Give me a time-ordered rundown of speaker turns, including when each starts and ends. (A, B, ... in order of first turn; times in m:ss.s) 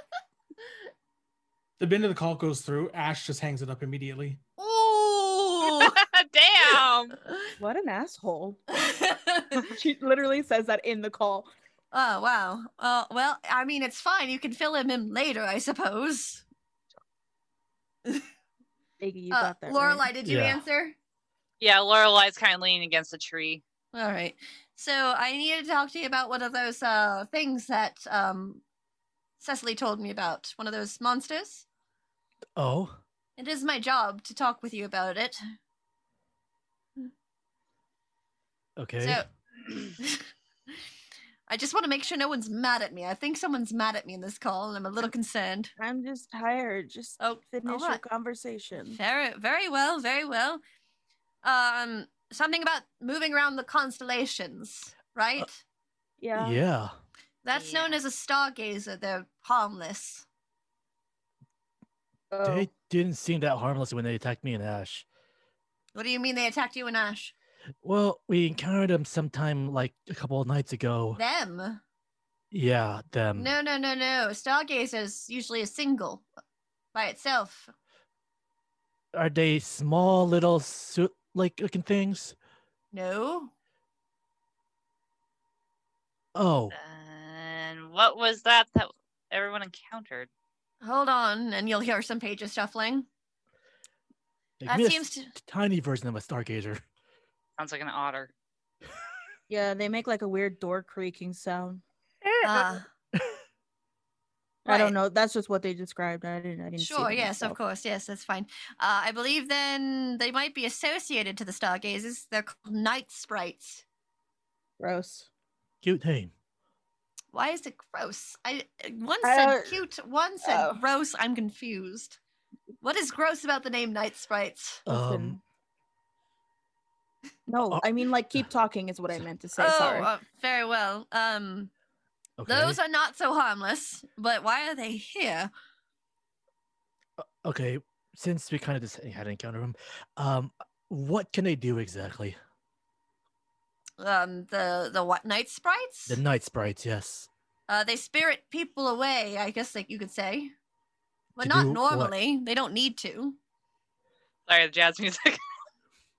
0:01.8-0:04.4 A
0:04.6-0:06.0 B
0:05.6-0:07.2 C
0:07.6-0:08.6 D
0:08.8-0:09.7 B
0:09.7-0:11.5 D
0:11.9-0:16.4 B
0:19.0-0:20.1 D
0:19.3-0:21.0 B
0:20.2-0:20.6 E
0:21.6-0:23.6 C
0:23.9-0:28.6 B
0:29.4-0:31.6 B
0:32.6-0:33.0 E
0:33.4-0:35.4 B
0:38.8-0:39.2 E
0:39.0-0:39.3 B
0:40.0-0:40.2 B
0:41.5-0:45.7 B
0:45.8-0:49.0 D
0:47.2-0:48.0 B
0:48.9-0:50.6 B
0:51.4-0:55.6 B
0:56.2-0:56.6 D
0:56.4-0:57.0 E
0:57.4-1:00.3 B
0:57.5-0:58.0 C
1:02.3-1:02.7 D
1:02.4-1:05.1 E
1:06.0-1:07.3 B
1:07.8-1:11.2 E
1:11.2-1:11.8 B
1:12.5-1:13.5 E
1:13.4-1:16.2 B
1:16.9-1:17.7 B
1:19.1-1:22.4 E
1:22.9-1:23.5 B
1:26.4-1:26.8 E
1:26.7-1:30.3 C
1:30.8-1:33.1 B
1:34.6-1:36.8 E
1:34.7-1:35.3 B
1:37.6-1:38.3 C
1:39.5-1:42.7 D
1:42.4-1:42.9 B
1:44.6-1:47.6 D
1:44.7-1:45.0 B
1:46.8-1:53.8 B
1:54.8-1:55.3 D
1:55.8-1:56.3 E
1:57.3-2:02.2 B
1:59.2-1:59.8 D
2:00.4-2:00.8 D
2:02.8-2:04.8 B
2:04.9-2:05.4 E
2:04.9-2:05.4 D
2:07.5-2:10.1 D
2:07.7-2:08.5 E
2:09.6-2:11.7 B
2:12.4-2:12.8 E
2:12.5-2:15.5 B
2:17.2-2:22.4 E
2:24.0-2:26.2 B
2:26.1-2:27.3 E
2:27.7-2:30.5 B
2:31.4-2:33.4 B
2:31.4-2:32.1 E
2:34.5-2:35.4 C